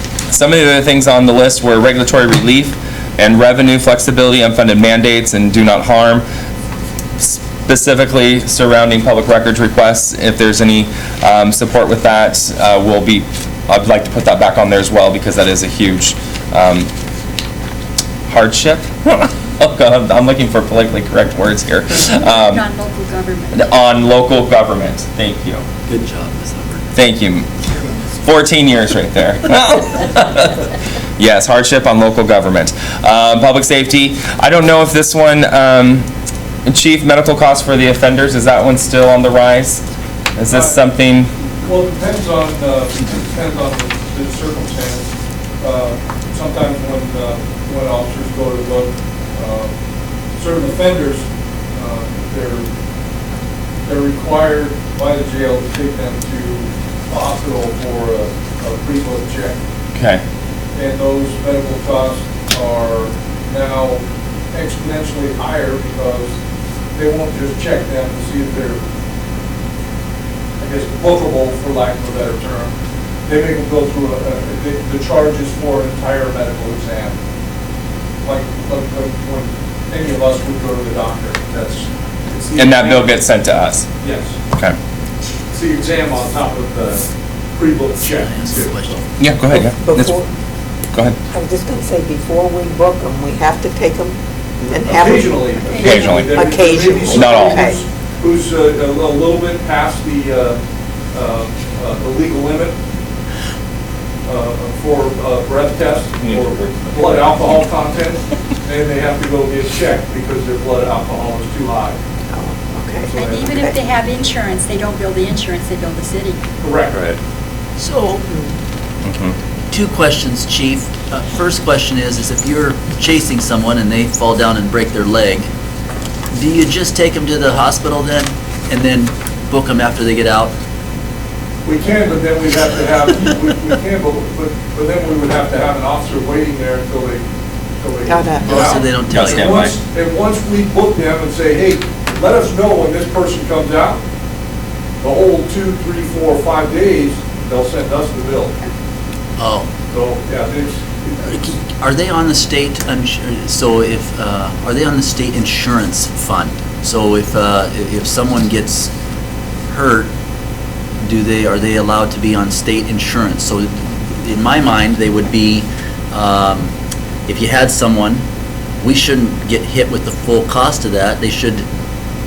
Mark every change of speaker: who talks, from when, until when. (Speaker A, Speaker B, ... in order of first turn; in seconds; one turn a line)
Speaker A: 0.3-6.2
Speaker A: 7.2-16.9
Speaker A: 18.3-22.6
Speaker B: 22.1-23.6
Speaker A: 23.5-25.6
Speaker C: 25.9-26.9
Speaker A: 26.9-27.5
Speaker A: 28.1-36.1
Speaker A: 36.6-39.8
Speaker A: 40.4-41.3
Speaker D: 40.5-40.8
Speaker D: 41.6-45.1
Speaker D: 45.6-49.7
Speaker D: 50.4-51.2
Speaker D: 51.8-52.7
Speaker D: 53.8-59.6
Speaker A: 59.9-60.2
Speaker D: 60.7-66.4
Speaker D: 67.0-68.8
Speaker D: 70.6-72.7
Speaker D: 73.3-77.2
Speaker D: 78.2-83.1
Speaker A: 82.5-83.8
Speaker D: 84.0-84.3
Speaker D: 85.5-88.9
Speaker C: 88.1-89.1
Speaker A: 89.2-90.1
Speaker E: 89.5-90.3
Speaker E: 91.3-97.8
Speaker D: 94.8-100.6
Speaker B: 95.7-96.2
Speaker A: 95.8-96.4
Speaker A: 97.0-97.7
Speaker D: 101.1-102.8
Speaker D: 104.2-112.0
Speaker A: 106.2-107.4
Speaker E: 112.3-113.8
Speaker D: 113.1-113.5
Speaker B: 113.2-116.4
Speaker D: 116.6-117.0
Speaker C: 117.8-118.3
Speaker A: 119.0-119.3
Speaker C: 119.7-125.5
Speaker C: 126.3-130.5
Speaker D: 131.6-137.2
Speaker D: 137.8-144.0
Speaker E: 138.0-138.6
Speaker C: 138.4-139.7
Speaker A: 139.1-139.7
Speaker D: 145.0-148.5
Speaker C: 149.4-149.7
Speaker D: 149.9-151.4
Speaker C: 151.2-158.9
Speaker C: 159.7-160.1
Speaker C: 161.0-166.7
Speaker C: 167.3-168.2
Speaker C: 168.8-171.7